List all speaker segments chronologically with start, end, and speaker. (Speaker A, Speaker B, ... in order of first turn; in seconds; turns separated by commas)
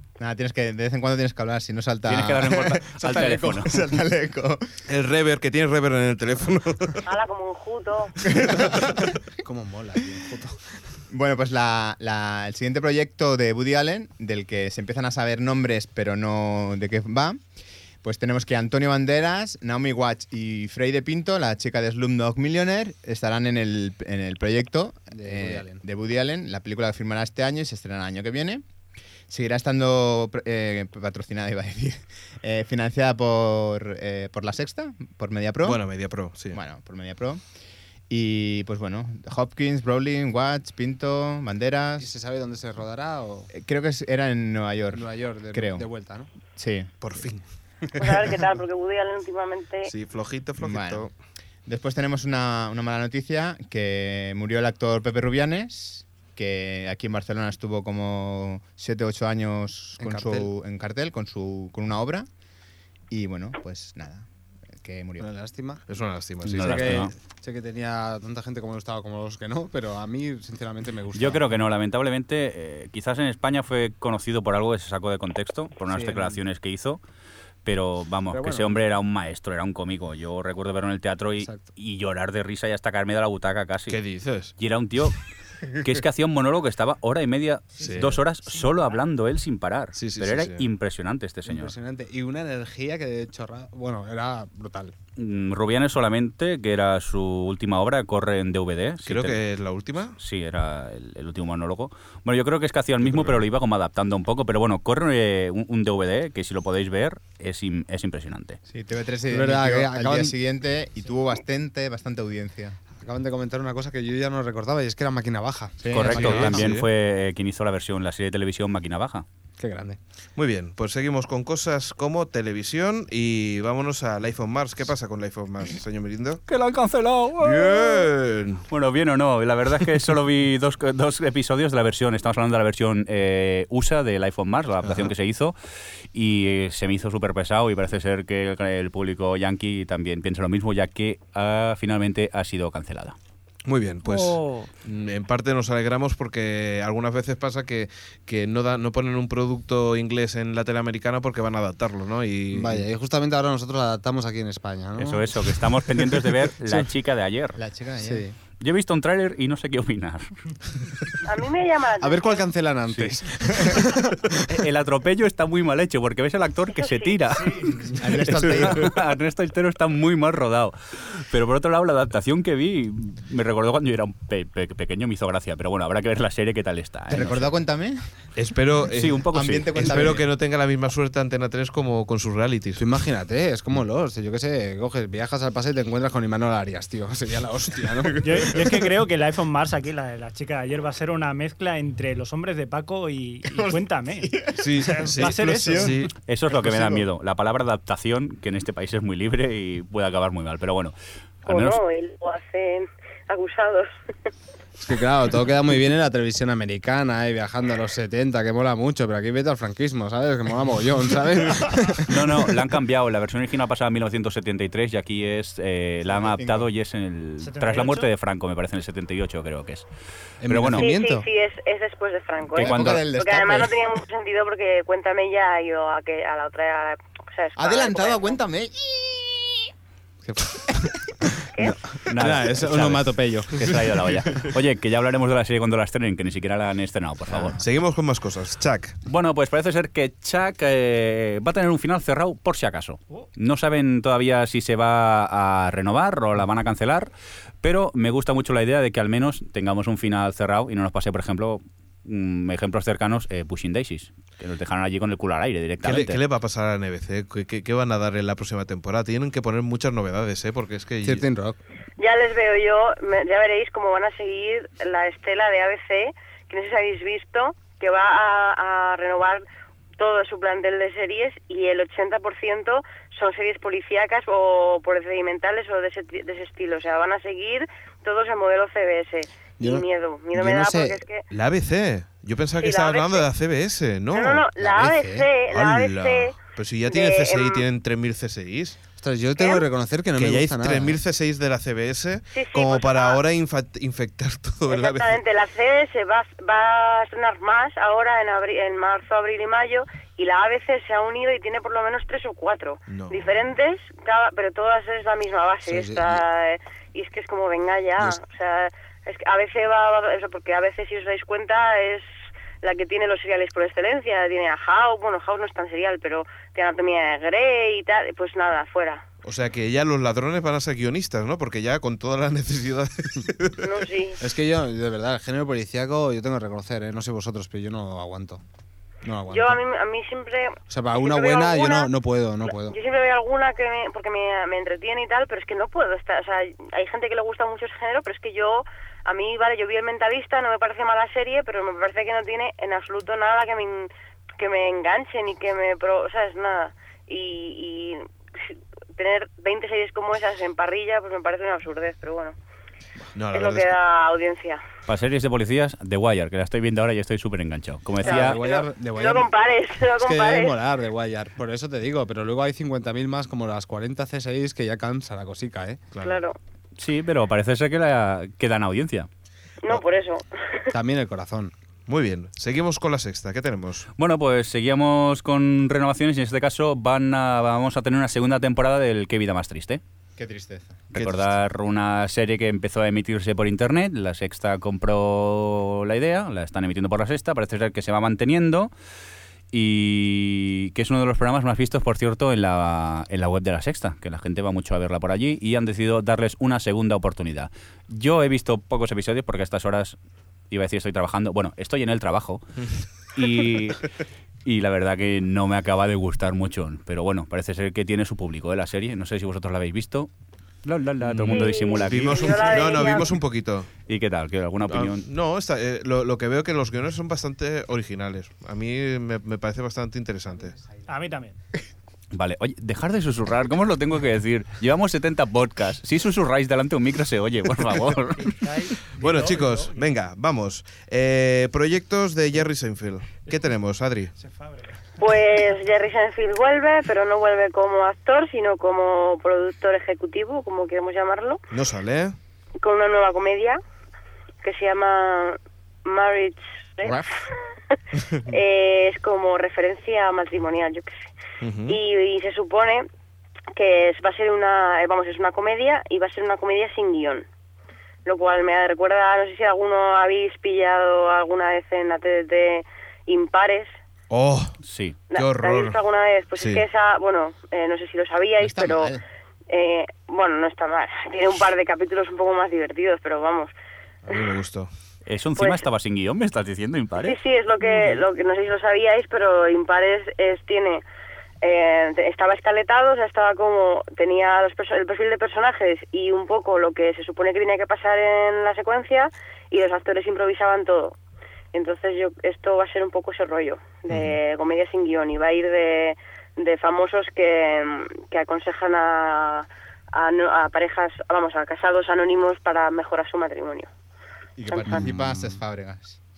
Speaker A: 0.2-4.6, Speaker B: 2.0-3.7, Speaker C: 4.9-7.0, Speaker D: 7.0-8.1, Speaker A: 8.3-8.9, Speaker E: 9.4-10.6, Speaker A: 11.1-17.4, Speaker A: 18.0-28.6, Speaker E: 25.1-25.8, Speaker A: 29.3-35.8, Speaker C: 35.6-36.6, Speaker A: 36.5-37.4, Speaker A: 38.1-42.1, Speaker E: 42.0-43.5, Speaker A: 43.5-45.9, Speaker E: 44.9-46.3, Speaker A: 46.5-46.9, Speaker C: 47.0-47.4, Speaker D: 48.0-49.9, Speaker C: 49.9-51.1, Speaker A: 50.6-51.0, Speaker A: 51.6-62.3, Speaker E: 60.0-60.5, Speaker A: 63.1-64.3, Speaker A: 64.8-65.3, Speaker E: 65.2-65.8, Speaker C: 65.9-67.1, Speaker B: 66.4-67.1, Speaker E: 66.5-71.4, Speaker B: 71.1-77.0, Speaker E: 75.9-76.4, Speaker B: 77.6-84.0, Speaker E: 78.3-78.8, Speaker E: 81.4-81.6, Speaker C: 83.9-84.5, Speaker B: 84.6-85.2, Speaker B: 85.7-91.7, Speaker C: 87.8-88.2, Speaker F: 88.5-89.0, Speaker C: 89.9-90.6, Speaker E: 91.5-94.9, Speaker B: 95.2-99.4, Speaker C: 99.0-100.2, Speaker B: 100.2-108.6, Speaker C: 103.0-103.3, Speaker A: 108.7-112.8, Speaker E: 109.3-110.3, Speaker E: 113.0-116.7, Speaker A: 115.8-116.4, Speaker B: 115.9-119.2, Speaker C: 116.1-116.9, Speaker E: 119.6-120.0, Speaker C: 120.4-126.4, Speaker B: 126.5-128.1, Speaker C: 127.4-128.6, Speaker B: 128.7-135.6, Speaker C: 134.8-135.1, Speaker B: 136.1-143.2, Speaker C: 143.7-152.9, Speaker B: 144.1-144.7, Speaker E: 152.5-156.9, Speaker B: 155.0-157.6, Speaker A: 157.6-158.3, Speaker E: 158.0-158.3, Speaker B: 158.6-160.3, Speaker D: 161.2-162.4, Speaker E: 162.0-164.4, Speaker B: 164.5-177.5, Speaker D: 166.8-167.1, Speaker A: 167.9-169.0, Speaker A: 177.1-178.0, Speaker C: 178.4-182.9, Speaker B: 178.9-180.0, Speaker A: 179.3-180.2, Speaker E: 182.8-188.6, Speaker F: 188.2-196.1, Speaker A: 193.5-194.6, Speaker C: 194.6-196.1, Speaker A: 195.5-196.0, Speaker B: 196.2-201.8, Speaker D: 201.5-203.9, Speaker E: 204.8-212.3, Speaker B: 212.0-219.9, Speaker A: 216.1-216.7, Speaker F: 217.4-218.1, Speaker E: 220.4-221.2, Speaker B: 220.5-220.9, Speaker D: 220.8-228.4, Speaker B: 222.5-223.0, Speaker A: 222.5-223.7, Speaker A: 227.6-229.7, Speaker E: 230.2-234.4, Speaker B: 232.0-237.6, Speaker C: 237.6-239.0, Speaker B: 239.1-247.1, Speaker B: 247.6-256.2, Speaker C: 255.8-261.2, Speaker E: 261.0-261.6, Speaker D: 262.0-269.4, Speaker D: 270.0-281.2, Speaker E: 279.6-281.0, Speaker C: 281.3-284.4, Speaker D: 282.6-283.3, Speaker D: 284.1-286.4, Speaker E: 284.6-285.3, Speaker C: 285.5-288.8, Speaker D: 286.9-287.6, Speaker E: 289.0-291.0, Speaker D: 289.4-289.6, Speaker C: 290.2-295.2, Speaker D: 292.3-293.2, Speaker D: 294.7-312.1, Speaker C: 302.9-303.3, Speaker E: 305.6-306.2, Speaker D: 312.6-319.0, Speaker C: 319.2-323.8, Speaker D: 323.6-324.2, Speaker E: 324.2-328.4, Speaker E: 329.0-329.6, Speaker D: 329.3-331.9, Speaker E: 330.7-332.8, Speaker D: 332.5-352.4, Speaker C: 353.1-353.8, Speaker D: 353.3-354.6, Speaker B: 354.9-358.4, Speaker D: 358.0-360.6, Speaker E: 358.0-359.3, Speaker E: 360.0-365.9, Speaker C: 365.9-366.2, Speaker D: 366.0-366.4, Speaker B: 366.8-369.1, Speaker D: 369.6-370.7, Speaker E: 370.7-371.5, Speaker C: 371.9-373.9, Speaker B: 374.0-379.8, Speaker A: 380.2-381.2, Speaker B: 380.9-388.7, Speaker B: 389.5-400.0, Speaker B: 400.5-402.4, Speaker B: 403.1-403.9, Speaker B: 404.4-410.1, Speaker B: 410.6-412.6, Speaker C: 411.0-413.7, Speaker D: 411.3-413.2, Speaker B: 413.9-415.1, Speaker C: 414.7-420.6, Speaker F: 420.9-421.4, Speaker B: 422.1-428.3, Speaker F: 428.1-429.9, Speaker C: 428.9-434.1, Speaker F: 434.1-434.9, Speaker D: 435.0-441.4, Speaker C: 441.5-442.1, Speaker D: 442.6-443.6, Speaker D: 444.4-447.8, Speaker D: 448.3-451.1, Speaker C: 451.4-451.8, Speaker D: 451.7-452.9, Speaker D: 453.5-457.2, Speaker D: 458.0-463.7, Speaker C: 464.1-464.6, Speaker B: 464.6-465.0, Speaker D: 465.1-468.9, Speaker C: 465.1-465.8, Speaker C: 466.4-466.6, Speaker A: 468.4-469.0, Speaker D: 469.5-473.5, Speaker C: 474.0-474.7, Speaker B: 475.1-477.2, Speaker D: 475.4-475.6, Speaker D: 477.0-480.8, Speaker D: 481.4-490.9, Speaker D: 491.5-503.7, Speaker C: 493.9-494.2, Speaker A: 504.4-506.0, Speaker D: 504.5-504.9, Speaker E: 504.6-505.4